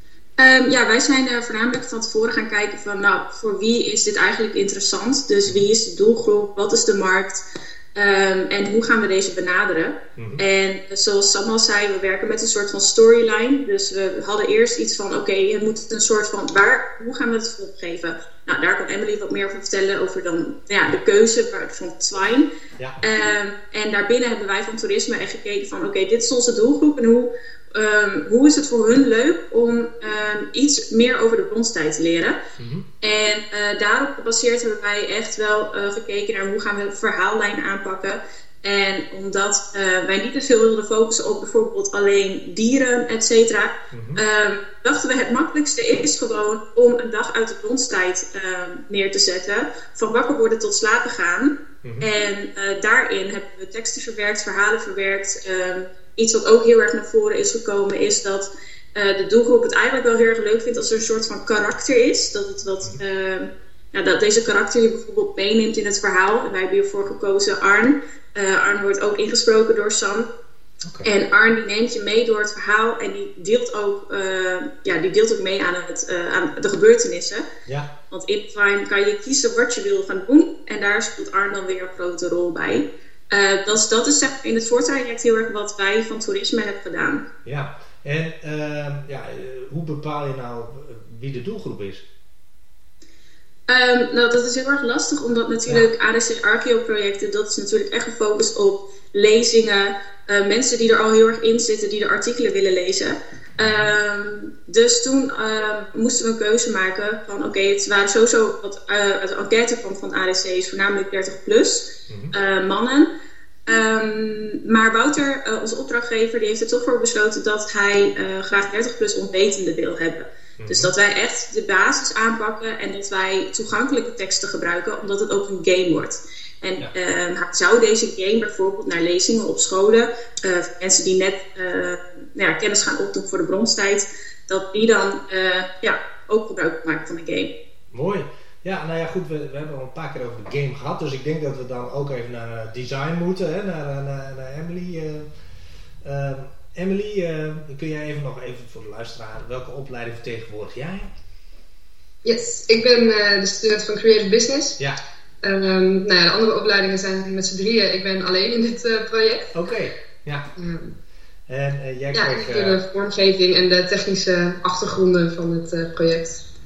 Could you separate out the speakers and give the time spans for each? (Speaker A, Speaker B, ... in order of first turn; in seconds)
Speaker A: 0.4-22.5, 23.0-32.4, 33.0-70.3, 71.0-77.5, 78.1-87.2, 93.7-113.1, 113.7-137.5
Speaker B: 10.2-10.4, 32.6-32.8, 43.9-44.2, 70.8-71.1, 87.4-92.0, 103.6-103.9, 120.6-120.9, 137.9-145.3, 146.0-151.1, 159.5-160.5, 161.5-162.8
Speaker C: 152.2-154.8, 155.4-159.5, 160.6-160.9, 162.1-166.4